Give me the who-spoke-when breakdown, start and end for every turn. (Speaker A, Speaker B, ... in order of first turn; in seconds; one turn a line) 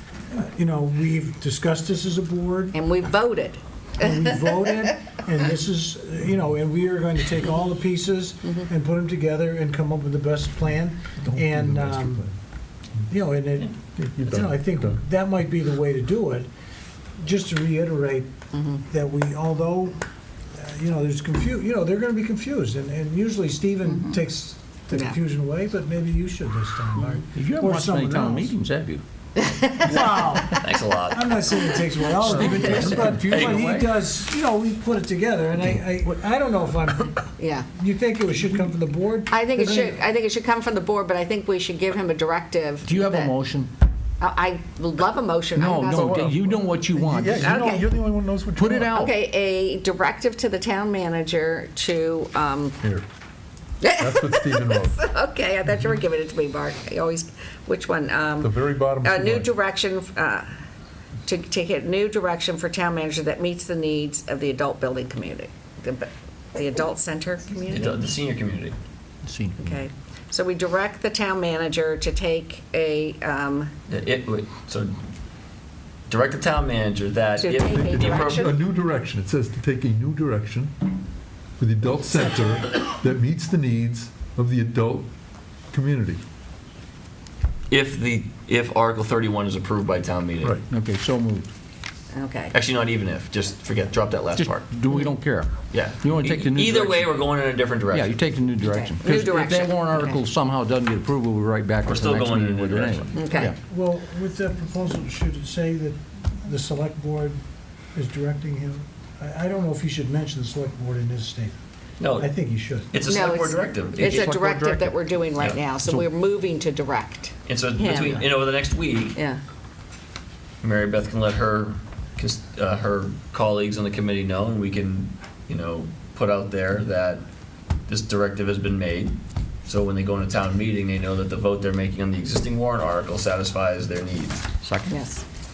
Speaker A: 0.3-2.8
Speaker B: 2.7-4.7
Speaker A: 4.0-12.3
Speaker C: 11.2-12.3
Speaker A: 13.1-16.5
Speaker C: 14.0-15.0
Speaker A: 17.2-18.3
Speaker B: 18.5-18.8
Speaker A: 18.8-20.0
Speaker A: 20.5-28.5
Speaker B: 24.9-25.2
Speaker D: 27.0-29.0
Speaker B: 29.4-29.9
Speaker A: 29.8-40.0
Speaker E: 30.4-31.7
Speaker D: 32.2-33.9
Speaker E: 33.3-33.6
Speaker B: 37.4-37.7
Speaker B: 39.3-43.4
Speaker D: 42.8-43.7
Speaker B: 44.2-46.2
Speaker D: 45.5-47.6
Speaker C: 46.0-49.0
Speaker B: 47.4-48.0
Speaker D: 48.5-49.1
Speaker B: 48.9-52.8
Speaker B: 53.8-60.5
Speaker C: 54.0-55.0
Speaker C: 58.4-59.5
Speaker B: 61.2-68.0
Speaker E: 67.7-68.8
Speaker D: 69.2-69.8
Speaker B: 69.6-73.7
Speaker E: 73.9-74.9
Speaker E: 76.1-78.5
Speaker B: 77.4-78.6
Speaker C: 77.6-80.8
Speaker C: 81.6-85.1
Speaker C: 85.7-86.2
Speaker E: 87.7-90.6
Speaker D: 90.7-91.5
Speaker B: 92.1-92.5
Speaker E: 92.5-94.7
Speaker D: 94.3-97.2
Speaker E: 95.7-98.2
Speaker D: 97.9-103.5
Speaker B: 98.6-100.2
Speaker E: 101.8-103.2
Speaker B: 103.1-103.5
Speaker A: 103.5-107.4
Speaker A: 107.9-111.6
Speaker E: 112.0-112.3
Speaker A: 112.2-112.9
Speaker E: 112.9-114.3
Speaker B: 113.0-118.2
Speaker D: 114.0-115.1
Speaker E: 115.4-115.6
Speaker D: 115.8-116.1
Speaker E: 117.5-119.2
Speaker B: 119.1-119.4
Speaker E: 120.6-127.2
Speaker E: 127.9-134.4
Speaker D: 134.6-135.0
Speaker B: 134.9-135.2